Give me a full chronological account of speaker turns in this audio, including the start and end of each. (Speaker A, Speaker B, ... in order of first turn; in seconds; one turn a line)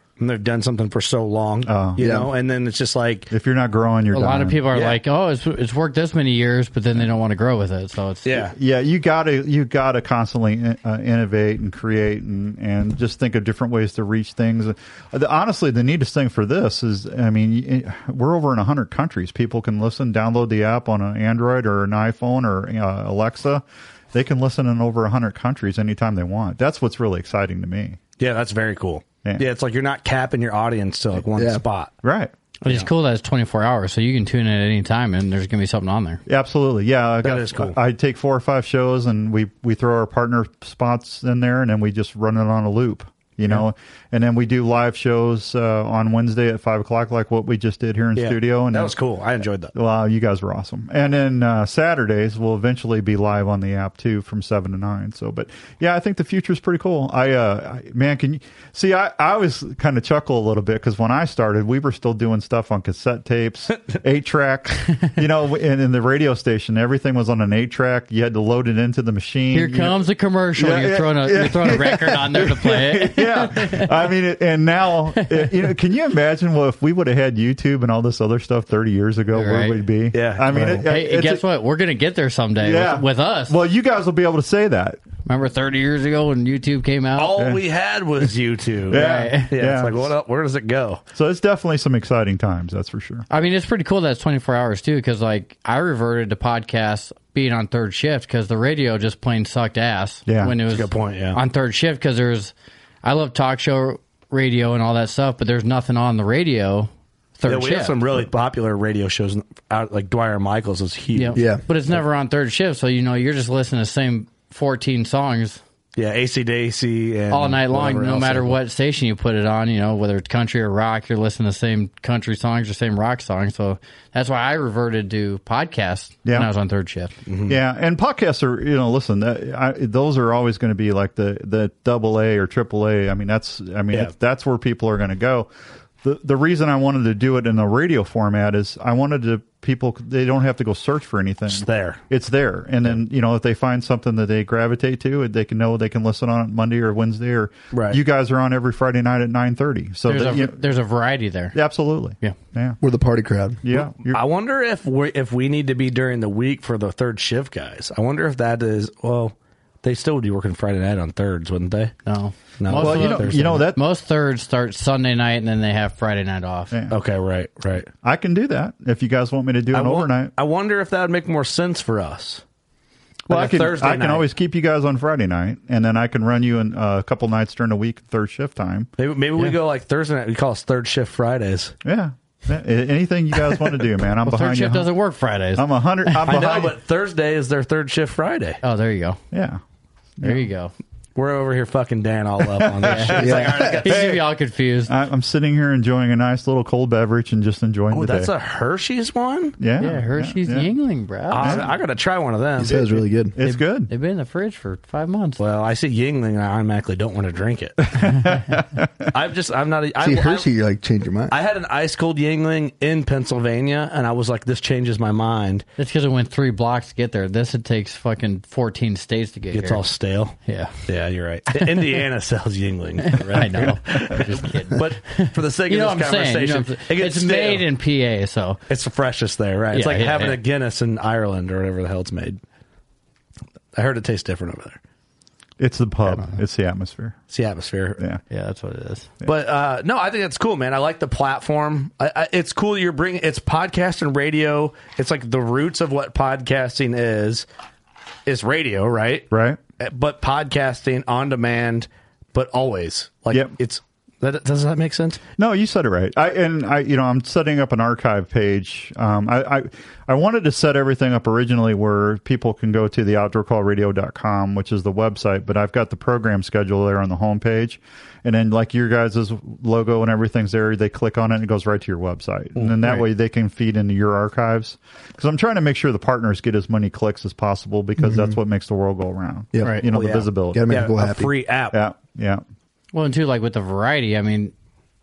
Speaker A: 0.2-3.3
Speaker B: 1.6-2.0
Speaker C: 2.0-2.3
Speaker B: 3.3-4.6
Speaker D: 4.1-8.5
Speaker A: 4.7-5.0
Speaker A: 8.2-8.5
Speaker B: 8.5-28.0
Speaker A: 28.2-31.9
Speaker C: 31.4-31.6
Speaker B: 32.0-32.3
Speaker D: 32.6-36.2
Speaker B: 36.3-48.9
Speaker A: 37.2-37.8
Speaker A: 48.1-49.7
Speaker B: 49.7-70.0
Speaker D: 69.5-73.9
Speaker B: 70.6-81.4
Speaker D: 75.2-75.5
Speaker D: 79.3-79.8
Speaker A: 80.1-80.8
Speaker D: 80.8-83.5
Speaker B: 82.6-85.0
Speaker D: 85.2-87.4
Speaker A: 87.2-91.0
Speaker B: 88.9-90.1
Speaker D: 88.9-89.5
Speaker B: 91.1-93.2
Speaker D: 93.3-102.5
Speaker B: 100.3-100.6
Speaker A: 100.7-101.4
Speaker D: 103.0-108.0
Speaker A: 107.5-111.4
Speaker D: 111.2-115.6
Speaker C: 111.3-111.6
Speaker A: 116.0-118.6
Speaker D: 117.3-127.1
Speaker B: 126.2-126.5
Speaker A: 127.2-127.6
Speaker B: 127.5-135.5
Speaker B: 136.0-150.6
Speaker A: 141.5-142.0
Speaker A: 147.7-148.0
Speaker D: 150.1-151.6
Speaker B: 151.5-152.8
Speaker C: 152.8-153.6
Speaker B: 153.6-154.2
Speaker A: 154.1-161.9
Speaker D: 162.1-166.7
Speaker A: 162.6-163.6
Speaker B: 162.7-163.8
Speaker B: 166.7-166.9
Speaker A: 166.9-167.9
Speaker B: 168.0-170.3
Speaker A: 169.7-172.4
Speaker B: 173.3-178.9
Speaker A: 173.3-174.2
Speaker A: 179.0-181.7
Speaker B: 181.8-184.9
Speaker D: 184.2-186.1
Speaker B: 185.5-186.8
Speaker A: 186.2-188.6
Speaker D: 188.6-189.2
Speaker B: 189.3-189.6
Speaker B: 190.2-190.5
Speaker D: 190.2-190.7
Speaker A: 191.2-194.1
Speaker B: 192.6-194.3
Speaker D: 192.8-194.9
Speaker C: 193.2-193.7
Speaker B: 194.8-198.3
Speaker A: 197.9-199.6
Speaker B: 199.6-200.7
Speaker D: 199.8-201.7
Speaker A: 201.3-202.8
Speaker B: 201.4-201.7
Speaker C: 202.6-203.4
Speaker B: 202.7-203.9
Speaker D: 203.4-205.4
Speaker A: 205.4-208.0
Speaker B: 207.9-208.9
Speaker A: 209.1-210.5
Speaker C: 210.0-211.3
Speaker A: 211.3-215.6
Speaker D: 215.8-219.8
Speaker A: 219.5-227.6
Speaker D: 220.4-220.8
Speaker D: 221.6-222.0
Speaker D: 223.1-228.6
Speaker A: 228.7-232.4
Speaker D: 229.7-230.4
Speaker A: 233.7-234.8
Speaker B: 235.6-237.2
Speaker A: 237.3-238.0
Speaker D: 238.3-239.1
Speaker A: 239.2-247.4
Speaker A: 248.2-249.3
Speaker B: 249.3-249.6
Speaker A: 249.8-255.2
Speaker B: 255.4-280.9
Speaker C: 278.0-278.4
Speaker C: 279.5-279.8
Speaker A: 279.8-281.8
Speaker C: 280.5-281.3
Speaker B: 281.7-282.4
Speaker D: 282.9-284.5